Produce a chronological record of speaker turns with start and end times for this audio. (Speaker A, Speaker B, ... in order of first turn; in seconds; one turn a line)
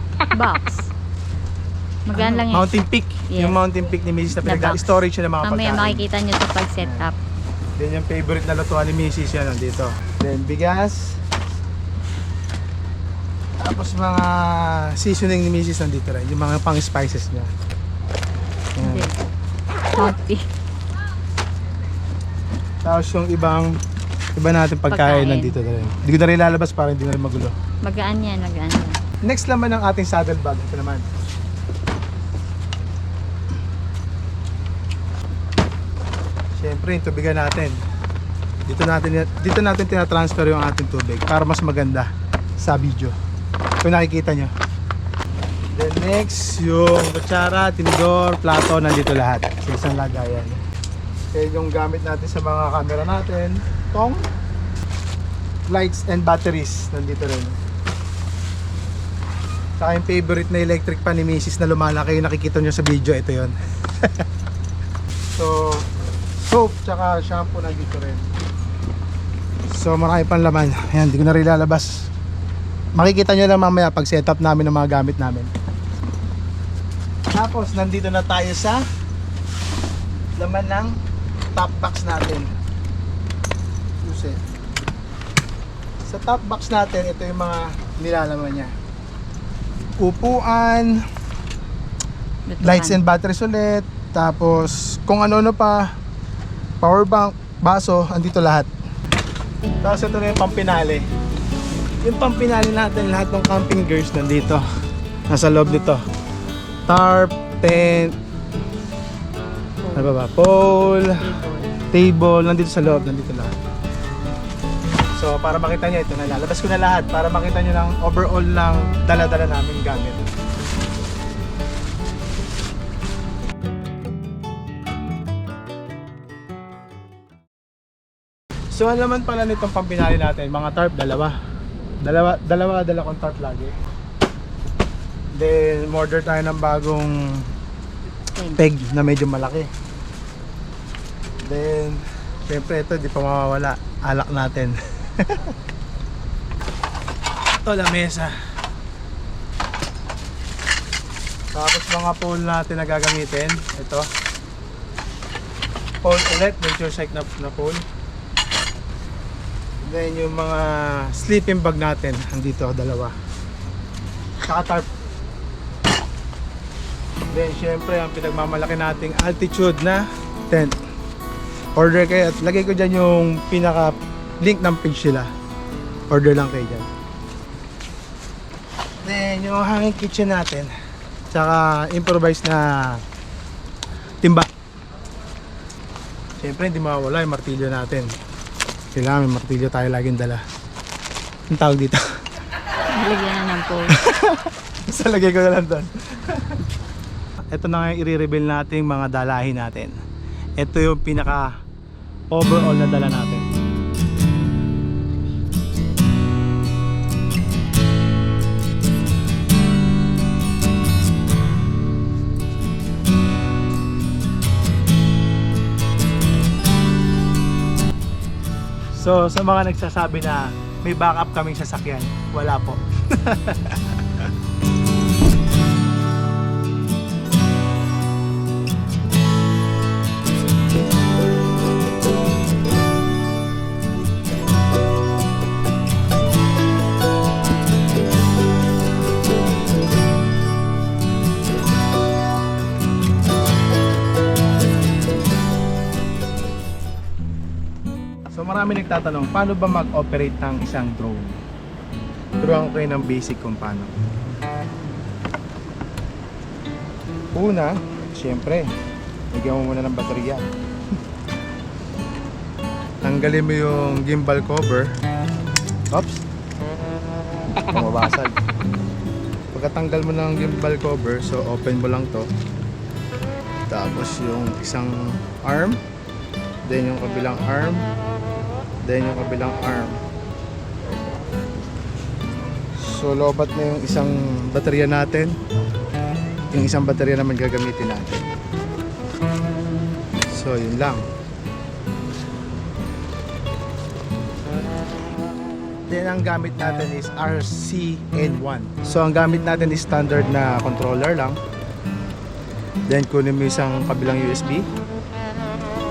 Speaker A: 0.3-0.9
Speaker A: 2.1-2.7
Speaker B: 2.1-6.0
Speaker A: 3.3-3.6
Speaker A: 4.4-7.2
Speaker B: 6.8-7.1
Speaker B: 7.8-11.2
Speaker B: 13.6-17.5
Speaker B: 18.8-19.1
Speaker A: 18.8-19.2
Speaker A: 19.9-20.4
Speaker B: 22.8-23.7
Speaker B: 24.4-27.5
Speaker A: 24.9-25.6
Speaker A: 27.8-29.0
Speaker B: 29.2-31.0
Speaker B: 36.6-37.8
Speaker B: 38.6-43.1
Speaker B: 43.8-44.5
Speaker B: 45.7-50.6
Speaker B: 51.3-54.2
Speaker B: 55.7-57.6
Speaker B: 59.8-64.2
Speaker B: 65.3-65.8
Speaker B: 66.4-68.2
Speaker B: 69.7-72.0
Speaker B: 73.0-75.5
Speaker B: 77.3-78.8
Speaker B: 80.4-80.9
Speaker B: 81.5-82.5
Speaker B: 84.0-84.4
Speaker B: 86.0-88.7
Speaker B: 90.0-90.9
Speaker A: 92.5-93.0
Speaker B: 92.6-95.8
Speaker B: 96.8-98.7
Speaker B: 99.8-101.0
Speaker B: 102.0-104.6
Speaker B: 105.3-106.0
Speaker B: 106.9-108.2
Speaker A: 109.8-110.2
Speaker B: 110.0-111.1
Speaker A: 111.0-111.7
Speaker B: 111.9-113.5
Speaker B: 115.2-120.2
Speaker B: 128.7-131.3
Speaker B: 132.0-133.7
Speaker B: 135.3-137.1
Speaker A: 138.3-138.7
Speaker B: 138.6-139.7
Speaker B: 141.4-145.5
Speaker B: 147.6-148.3
Speaker B: 151.5-154.1
Speaker B: 156.0-157.8
Speaker B: 159.8-163.1
Speaker B: 164.4-164.9
Speaker B: 167.3-170.8
Speaker B: 171.8-175.3
Speaker B: 176.1-176.9
Speaker B: 179.0-180.7
Speaker B: 181.3-183.0
Speaker B: 184.2-184.5
Speaker B: 186.4-188.1
Speaker B: 188.9-190.4
Speaker B: 191.5-192.0
Speaker A: 192.9-194.0
Speaker B: 194.0-196.6
Speaker B: 197.5-199.9
Speaker B: 200.6-201.5
Speaker B: 202.3-203.4
Speaker B: 218.9-224.3
Speaker B: 248.3-251.4
Speaker B: 252.4-253.9
Speaker B: 257.3-258.7
Speaker B: 259.3-260.5
Speaker B: 263.0-264.9
Speaker B: 265.9-266.2
Speaker B: 267.6-268.4
Speaker B: 269.5-272.3
Speaker B: 273.7-275.8
Speaker B: 276.6-277.8
Speaker B: 278.8-280.0
Speaker B: 282.8-285.4
Speaker B: 286.5-288.2
Speaker B: 290.3-291.1
Speaker B: 295.9-301.4
Speaker B: 302.9-304.6